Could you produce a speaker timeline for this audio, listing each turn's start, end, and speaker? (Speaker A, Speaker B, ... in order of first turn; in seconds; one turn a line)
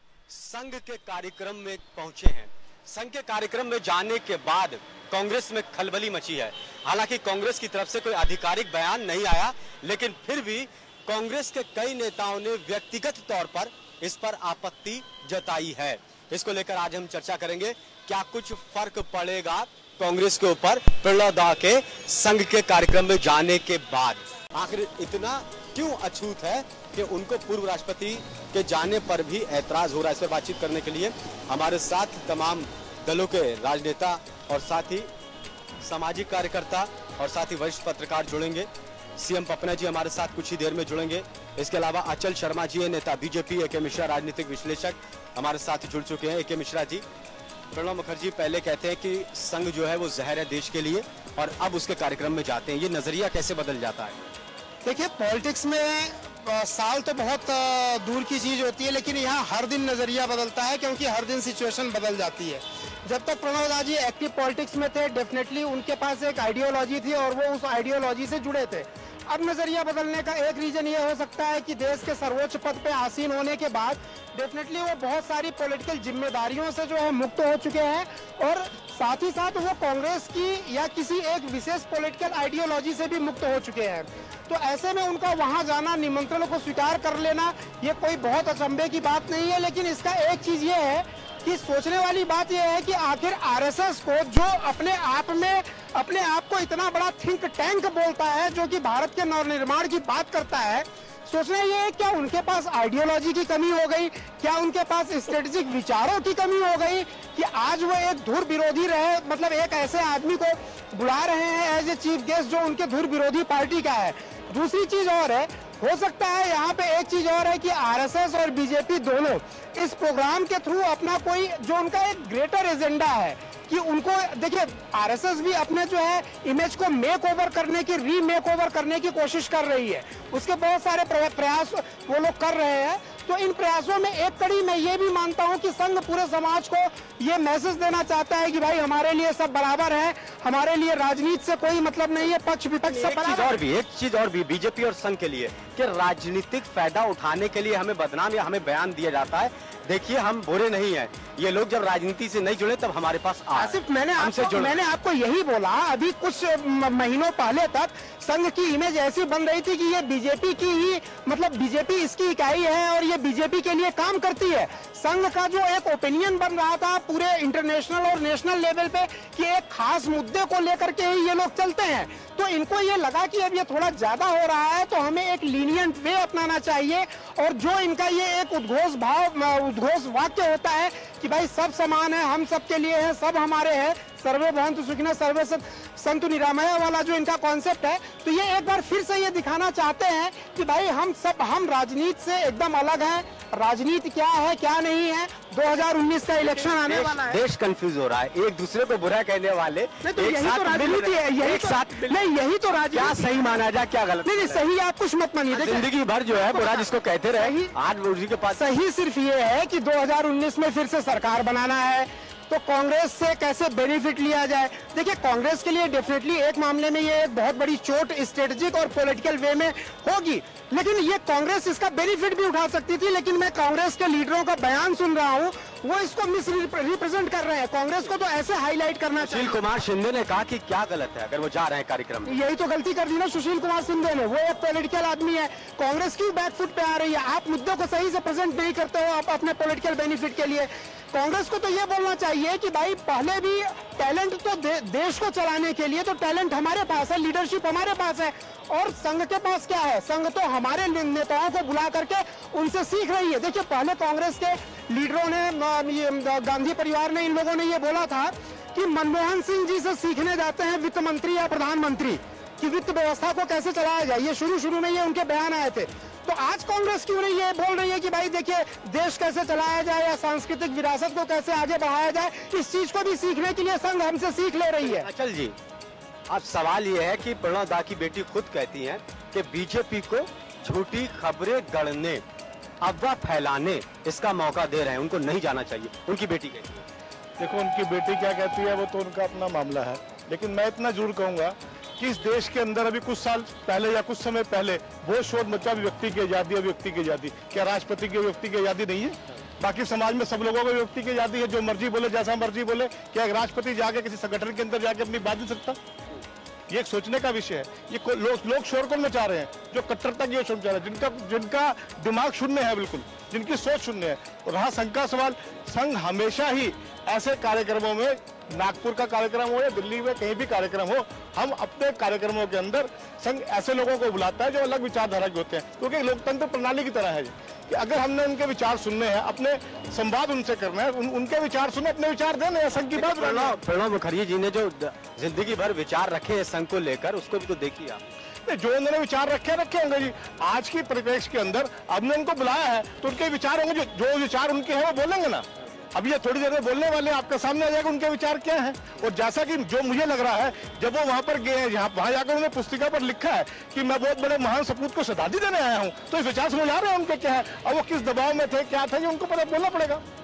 Speaker A: 0.3-35.1
Speaker A: 35.8-47.0
Speaker A: 47.7-54.2
Speaker B: 54.8-143.6
Speaker A: 142.9-154.8
Speaker B: 153.6-197.4
Speaker A: 196.6-202.3
Speaker B: 200.0-203.2
Speaker A: 202.9-204.6
Speaker B: 204.2-205.9
Speaker A: 205.5-208.8
Speaker B: 206.5-207.7
Speaker B: 208.5-229.6
Speaker A: 229.2-232.3
Speaker B: 232.2-275.1
Speaker A: 274.8-275.6
Speaker A: 276.3-282.2
Speaker A: 282.8-286.8
Speaker C: 287.4-305.8
Speaker C: 306.7-333.6
Speaker A: 332.9-338.0
Speaker C: 338.4-360.0